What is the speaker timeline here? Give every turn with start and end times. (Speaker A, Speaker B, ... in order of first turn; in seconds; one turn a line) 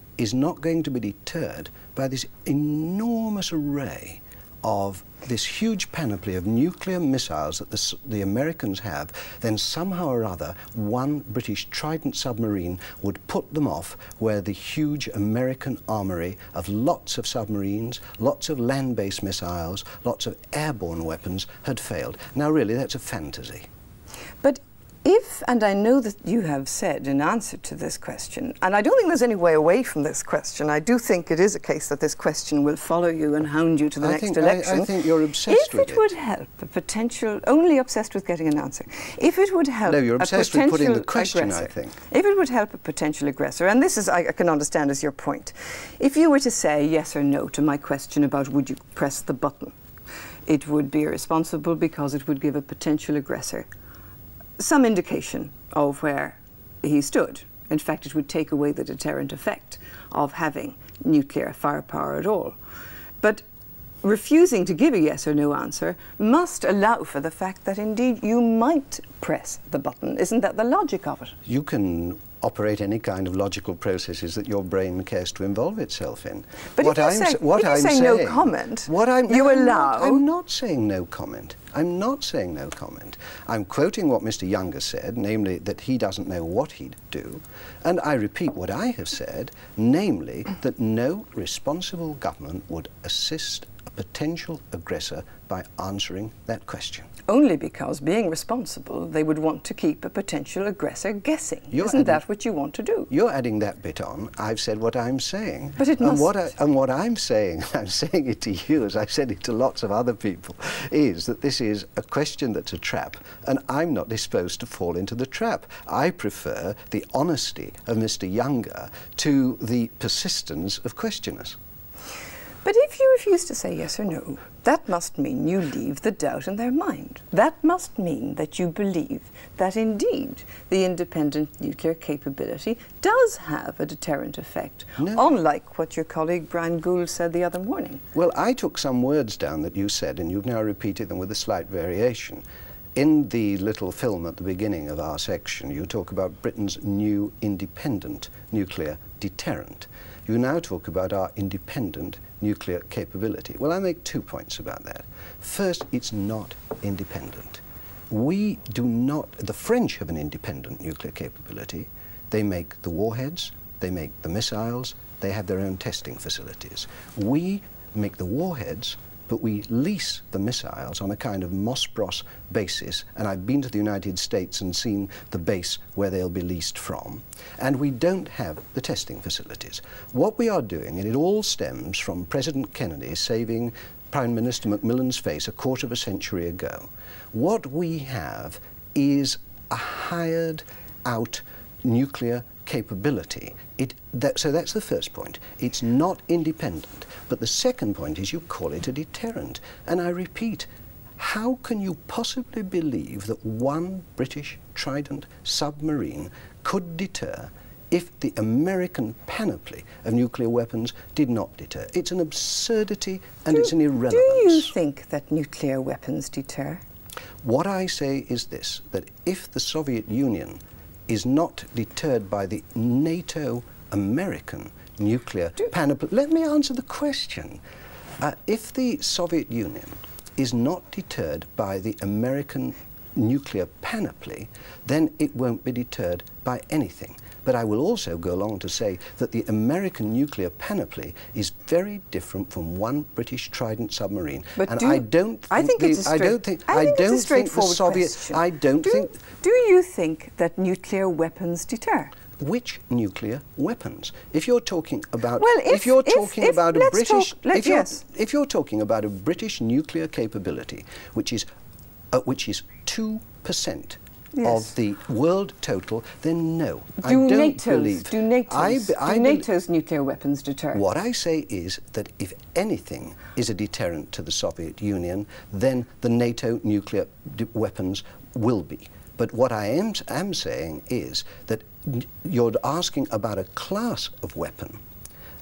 Speaker A: 0.2-23.7
Speaker B: 24.4-49.8
Speaker A: 34.0-36.1
Speaker A: 39.9-42.0
Speaker B: 50.5-53.7
Speaker B: 54.6-62.6
Speaker B: 64.0-71.3
Speaker A: 71.5-97.1
Speaker B: 76.8-80.2
Speaker B: 97.3-103.1
Speaker A: 101.7-102.2
Speaker A: 103.1-121.6
Speaker B: 105.8-106.3
Speaker B: 122.6-138.0
Speaker A: 135.0-135.3
Speaker A: 138.1-142.4
Speaker A: 142.9-214.7
Speaker B: 213.5-216.8
Speaker A: 217.4-227.6
Speaker A: 228.2-249.2
Speaker B: 244.6-252.1
Speaker A: 252.4-261.5
Speaker B: 255.4-258.0
Speaker A: 262.1-269.5
Speaker B: 264.4-264.7
Speaker B: 267.0-270.8
Speaker A: 270.7-284.8